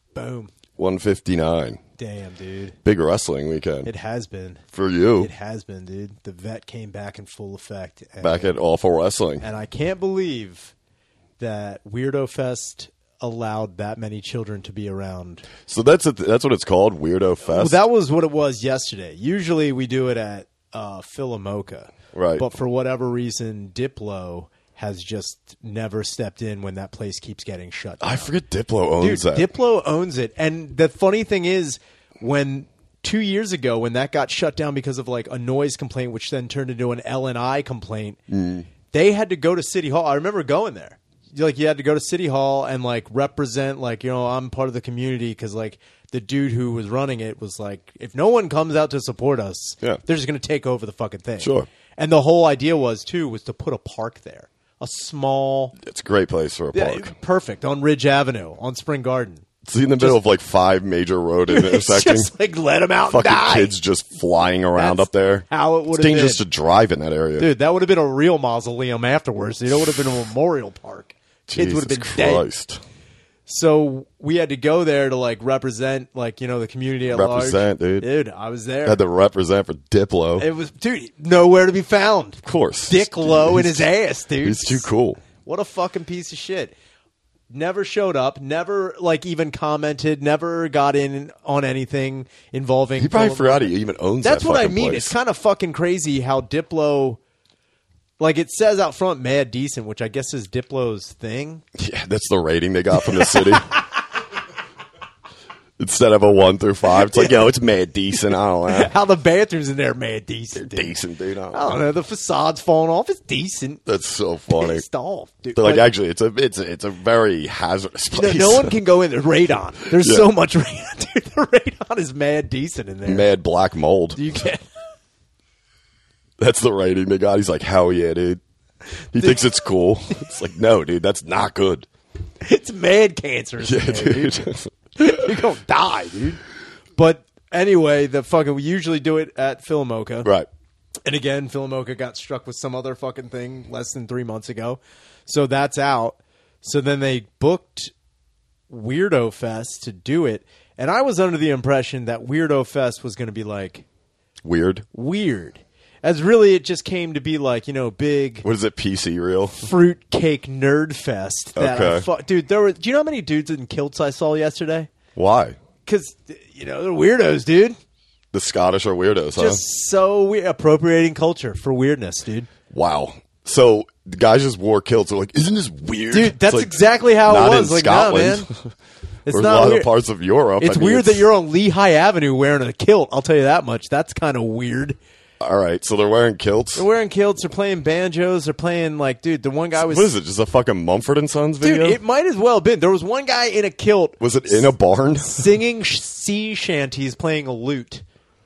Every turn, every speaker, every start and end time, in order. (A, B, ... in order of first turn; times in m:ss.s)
0:00.2-0:00.5 A
0:00.8-0:01.8 B
0:02.0-0:02.8 A
0:02.8-0:03.9 B
0:03.8-0:04.6 A
0:04.7-0:05.3 B
0:05.2-0:08.5 A
0:08.2-0:09.4 B
0:09.4-0:10.7 A
0:11.4-0:15.5 A
0:15.7-0:17.8 B
0:17.5-0:28.3 A
0:22.1-0:22.4 B
0:28.0-0:29.5 B
0:29.0-0:38.2 A
0:38.3-0:38.7 B
0:38.9-0:55.8 A
0:51.4-0:51.7 B
0:55.8-0:57.1 B
0:56.7-0:59.4 A
0:59.6-1:02.3 B
1:01.5-1:03.7 A
1:03.1-1:07.5 B
1:04.8-1:06.4 A
1:07.4-1:12.5 A
1:11.5-1:12.8 B
1:13.5-1:19.0 A
1:17.1-1:18.1 B
1:18.8-1:20.5 B
1:20.4-1:24.9 A
1:22.4-1:23.9 B
1:24.4-1:25.2 B
1:25.4-1:26.7 A
1:27.5-1:33.7 A
1:33.0-1:35.2 B
1:34.2-1:37.2 A
1:38.2-1:41.6 A
1:41.8-1:43.7 B
1:43.0-1:43.8 A
1:45.8-1:48.9 B
1:48.7-1:50.9 A
1:50.6-1:51.8 B
1:51.5-1:53.8 A
1:53.9-1:54.8 B
1:54.6-1:55.9 A
1:55.6-1:58.7 B
1:58.1-2:03.3 A
2:00.0-2:00.3 B
2:03.1-2:04.2 B
2:04.2-2:04.7 A
2:06.4-2:08.4 B
2:09.1-2:11.9 B
2:12.4-2:14.4 A
2:13.6-2:15.3 B
2:15.0-2:16.4 A
2:17.0-2:20.3 A
2:21.0-2:27.9 A
2:28.7-2:33.9 A
2:34.4-2:34.8 B
2:34.9-2:38.5 A
2:38.4-2:39.6 B
2:39.6-2:44.9 A
2:41.6-2:42.1 B
2:45.2-2:45.6 B
2:45.8-2:47.8 A
2:48.3-2:49.6 B
2:49.4-2:52.5 A
2:52.7-2:58.7 B
2:56.1-2:58.5 A
2:59.3-2:59.9 A
2:59.3-3:01.3 B
3:00.6-3:05.0 A
3:05.4-3:06.8 B
3:06.8-3:10.2 A
3:09.8-3:12.0 B
3:11.6-3:18.0 A
3:14.2-3:15.5 B